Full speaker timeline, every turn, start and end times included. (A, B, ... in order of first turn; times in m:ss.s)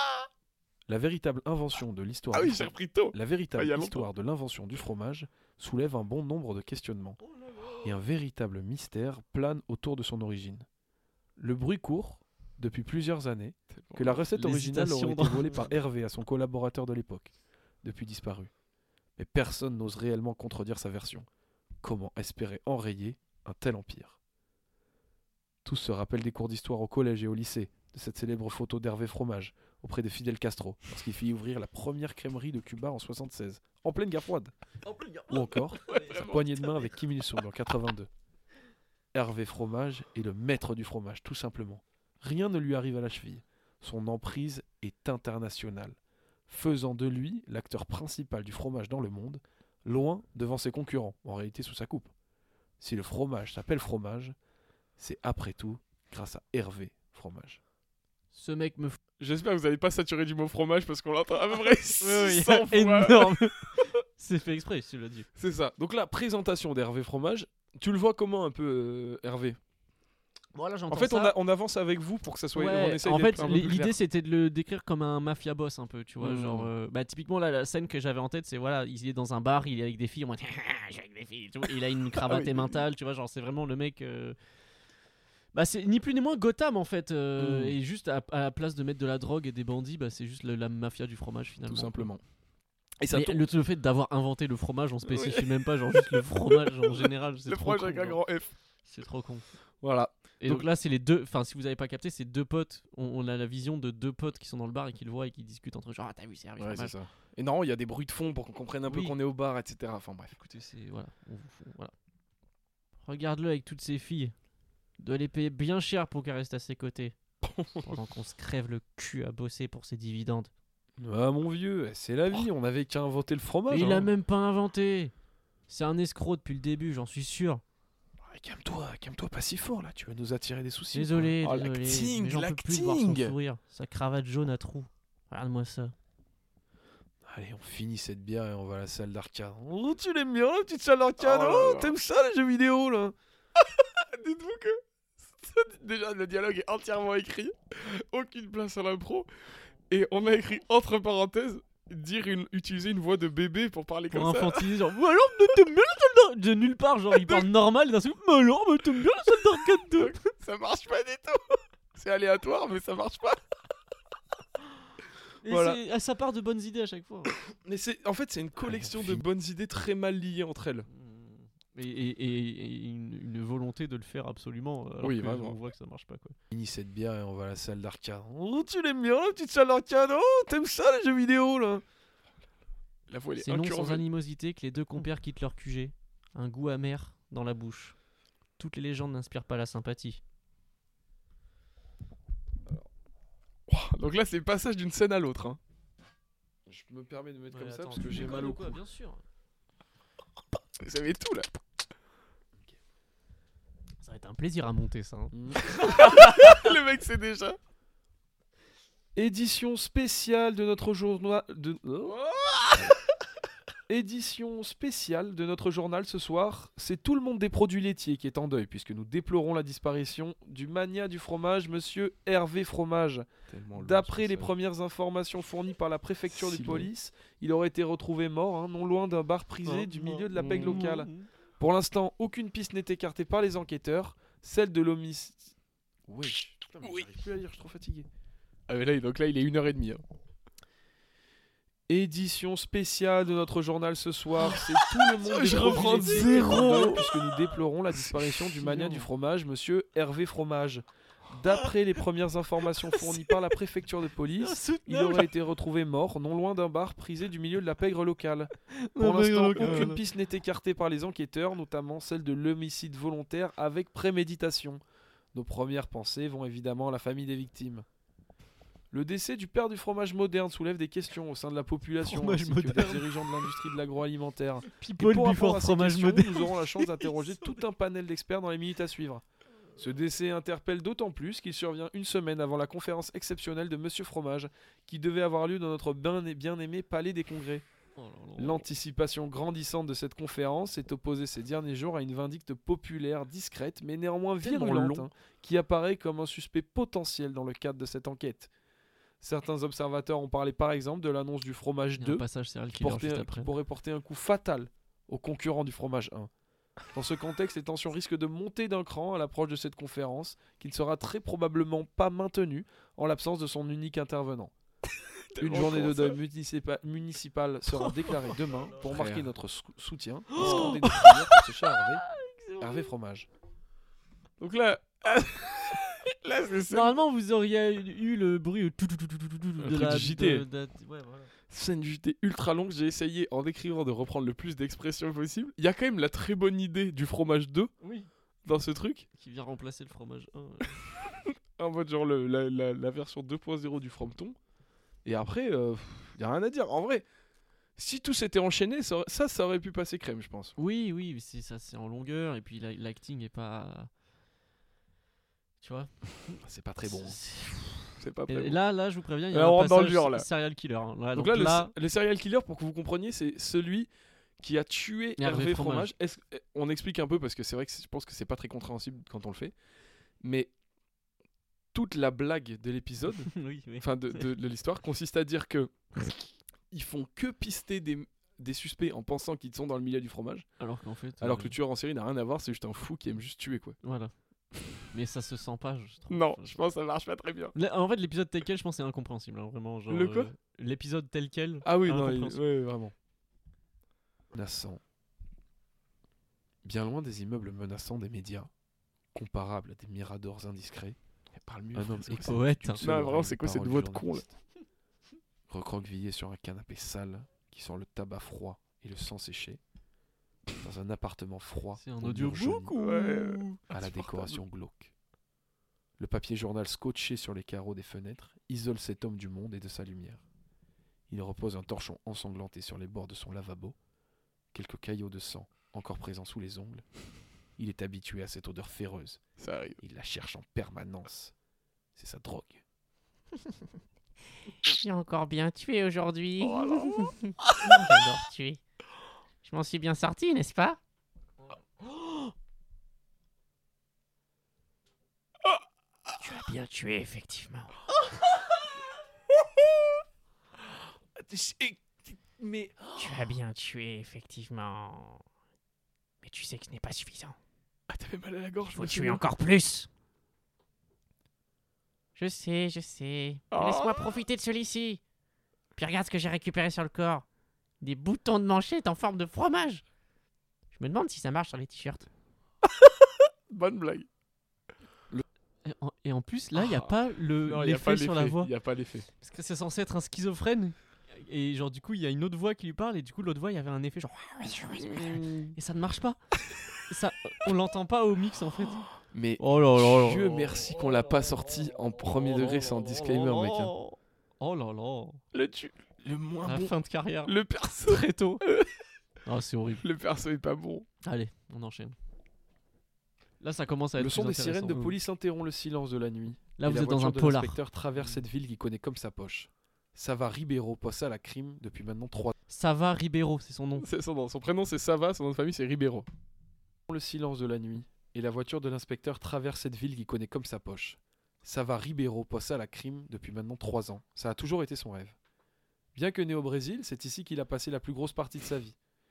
0:00.9-0:07.2 A
0:02.3-0:04.1 B
0:07.4-0:07.8 C
0:07.8-0:10.6 A
0:11.4-0:18.5 A
0:13.7-0:14.2 B
0:14.3-0:15.7 C
0:19.2-0:21.3 A
0:21.8-0:24.2 A
0:25.6-0:34.5 A
0:34.8-0:36.2 C
0:35.3-0:38.1 A
0:35.9-0:36.6 B
0:39.1-0:46.0 A
0:46.5-0:52.1 A
0:52.8-0:54.4 A
0:55.0-0:57.6 A
0:58.3-0:59.0 C
0:59.2-1:03.7 B
1:02.0-1:05.3 C
1:05.4-1:06.9 B
1:06.7-1:07.7 A
1:07.7-1:09.5 B
1:08.3-1:09.0 A
1:10.5-1:11.3 C
1:10.9-1:13.9 B
1:12.5-1:24.4 C
1:16.2-1:16.7 B
1:22.3-1:22.6 B
1:25.5-1:32.1 C
1:27.4-1:27.8 B
1:31.7-1:32.2 B
1:33.0-1:33.3 B
1:33.1-1:38.2 C
1:35.1-1:35.5 B
1:36.1-1:38.5 B
1:38.8-1:39.4 C
1:39.8-1:40.6 B
1:40.4-1:46.9 C
1:46.6-1:50.3 B
1:48.8-1:49.2 C
1:50.3-1:51.9 C
1:53.0-1:54.3 C
1:55.0-1:57.1 C
1:57.4-1:57.8 B
1:57.8-2:00.5 C
2:01.0-2:04.1 A
2:03.7-2:05.1 C
2:05.7-2:07.6 C
2:08.2-2:11.4 A
2:10.9-2:15.9 C
2:11.4-2:13.4 B
2:17.2-2:23.1 A
2:21.2-2:21.9 B
2:23.6-2:29.3 B
2:29.9-2:34.7 B
2:34.1-2:40.2 C
2:40.0-2:43.4 B
2:45.4-2:47.3 C
2:45.5-2:45.8 B
2:47.6-2:50.9 B
2:48.7-2:49.2 A
2:50.9-2:56.4 C
2:55.0-2:55.6 B
2:56.5-3:01.8 A
3:03.1-3:04.0 B
3:03.4-3:07.9 C
3:08.6-3:10.2 C
3:13.7-3:15.6 B
3:16.6-3:18.8 A
3:17.5-3:19.2 C
3:20.8-3:21.5 B
3:24.0-3:26.6 C
3:25.3-3:25.8 A
3:25.8-3:27.6 B
3:29.1-3:32.2 A
3:32.2-3:32.9 B
3:33.9-3:55.5 A
3:43.5-3:44.5 B
3:46.3-3:46.9 B
3:49.7-3:51.3 C
3:50.4-3:50.9 B
3:56.1-3:58.1 A
3:56.8-3:57.1 B
3:58.7-4:00.0 B
4:01.9-4:24.8 A
4:05.1-4:07.1 B
4:05.5-4:06.9 C
4:07.9-4:08.9 B
4:14.4-4:15.3 C
4:18.7-4:20.0 C
4:19.6-4:19.9 B
4:25.3-4:27.8 A
4:28.9-4:39.2 A
4:32.0-4:33.3 C
4:34.7-4:37.3 C
4:39.8-4:47.6 A
4:48.0-4:48.6 C
4:48.4-4:58.5 A
4:54.4-4:55.1 B
4:59.2-5:06.3 A
5:02.0-5:03.5 C
5:06.9-5:14.5 A
5:15.3-5:16.2 B
5:15.4-5:22.0 A
5:18.8-5:19.3 B
5:20.3-5:21.1 C
5:20.4-5:20.7 B
5:22.1-5:22.9 C
5:22.6-5:23.3 A
5:24.4-5:27.0 B
5:26.7-5:31.3 C
5:29.6-5:30.4 B
5:31.5-5:37.7 B
5:37.8-5:38.1 C
5:38.4-5:39.0 B
5:39.1-5:40.8 C
5:41.6-5:44.4 B
5:45.0-5:47.0 B
5:47.8-5:50.6 B
5:50.6-5:53.9 C
5:55.6-5:56.0 C
5:56.4-5:57.2 A
5:56.8-6:01.7 C
5:58.0-5:58.6 B
5:59.3-6:00.3 B
6:01.1-6:03.9 B
6:04.4-6:09.5 B
6:05.2-6:05.9 C
6:10.2-6:10.5 B
6:11.7-6:16.2 B
6:13.3-6:14.3 C
6:16.7-6:20.5 B
6:20.6-6:21.5 C
6:21.2-6:23.8 B
6:23.8-6:24.1 C
6:24.7-6:26.6 C
6:26.1-6:27.5 B
6:27.5-6:32.4 C
6:29.9-6:30.3 B
6:31.6-6:32.9 B
6:34.3-6:34.8 A
6:36.6-6:38.5 A
6:39.1-6:41.0 A
6:41.3-6:44.2 B
6:41.7-6:44.3 A
6:42.1-6:42.8 C
6:45.5-6:49.6 A
6:50.6-6:52.7 A
6:51.8-6:54.4 C
6:52.7-6:53.5 B
6:53.7-6:54.9 A
6:56.0-7:00.2 A
7:01.1-7:03.8 A
7:04.5-7:06.8 A
7:07.6-7:09.2 A
7:09.4-7:09.8 B
7:09.8-7:11.3 A
7:12.0-7:12.6 A
7:14.6-7:18.6 D
7:16.4-7:17.5 B
7:19.4-7:20.8 D
7:26.2-7:27.7 D
7:31.2-7:33.3 B
7:33.0-7:35.2 D
7:36.2-7:37.4 D
7:37.9-7:39.2 B
7:38.7-7:39.9 D
7:42.2-7:45.0 D
7:43.5-7:44.2 B
7:45.8-7:47.2 D
7:47.8-7:49.8 D
7:50.7-7:52.1 D
7:53.5-7:54.1 B
7:55.6-7:58.5 C
7:56.5-7:59.1 B
7:59.2-8:06.2 C
8:06.9-8:08.9 C
8:09.1-8:13.6 B
8:09.4-8:10.5 C
8:12.2-8:15.2 C
8:15.3-8:16.7 B
8:16.4-8:17.3 C
8:17.2-8:18.7 B
8:17.8-8:18.4 C
8:19.2-8:19.8 C
8:19.8-8:20.8 B
8:21.0-8:22.0 C
8:23.4-8:24.9 C
8:24.0-8:32.3 A
8:26.6-8:27.6 C
8:32.5-8:33.8 C
8:33.8-8:36.1 B
8:36.9-8:45.2 A
8:45.9-8:48.8 A